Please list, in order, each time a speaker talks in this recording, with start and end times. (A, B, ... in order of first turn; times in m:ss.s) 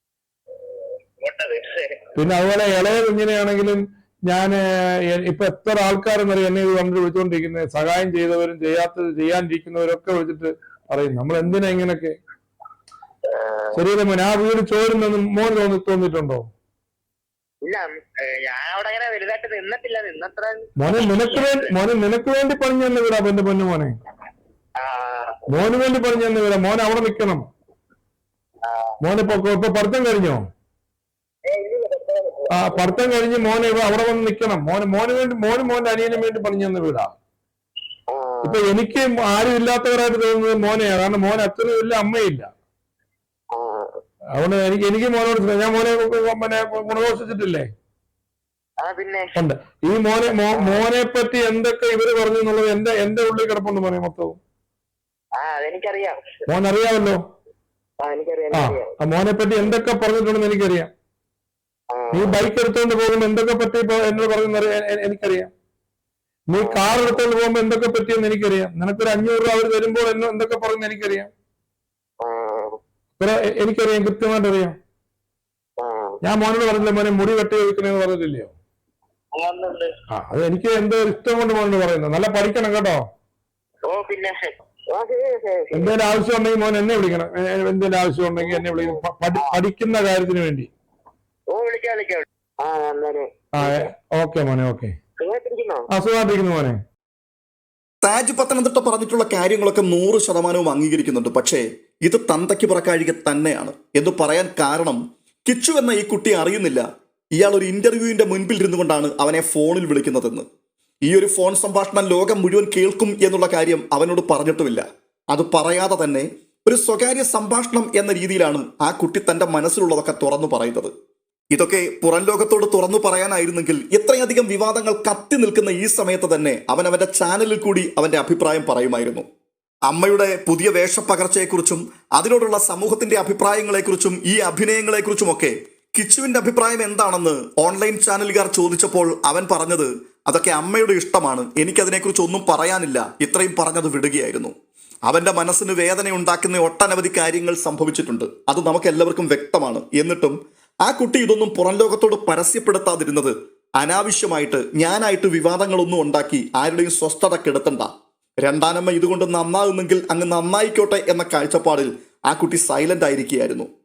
0:01.2-0:02.1 A
0:02.2-0:12.1 B
0:13.3-0:13.8 A
0:13.7-0:16.4 B
0:17.6-0:21.7 A
0:20.8-0:24.0 B
0:24.8-0:25.4 A
0:25.5-0:27.5 B
0:28.6-0:28.9 A
0:29.0-0:30.4 B
0:31.5-0:33.1 A
0:32.5-0:37.1 B
0:38.1-0:38.6 A
0:38.4-0:42.5 B
0:43.5-0:44.0 A
0:44.4-0:47.7 B
0:48.8-0:49.3 A
0:49.3-0:54.4 B
0:50.5-0:50.8 A
0:55.4-0:56.4 A
0:56.5-0:57.2 B
0:58.0-0:58.9 A
0:58.5-1:00.9 B
1:01.9-1:02.4 A
1:02.1-1:05.5 B
1:06.5-1:11.3 B
1:06.6-1:07.1 A
1:12.2-1:12.8 A
1:13.2-1:14.8 B
1:15.8-1:16.2 A
1:16.2-1:18.5 B
1:19.3-1:19.9 A
1:20.2-1:23.0 B
1:23.8-1:26.0 A
1:25.7-1:30.7 B
1:28.4-1:29.6 A
1:31.5-1:33.9 A
1:33.5-1:34.9 B
1:35.2-1:35.9 A
1:35.9-1:36.8 B
1:38.0-1:46.8 C
1:47.4-1:50.4 C
1:51.0-2:00.9 C
2:01.5-2:09.2 C
2:09.9-2:24.5 C
2:25.1-2:37.9 C
2:38.4-2:43.7 C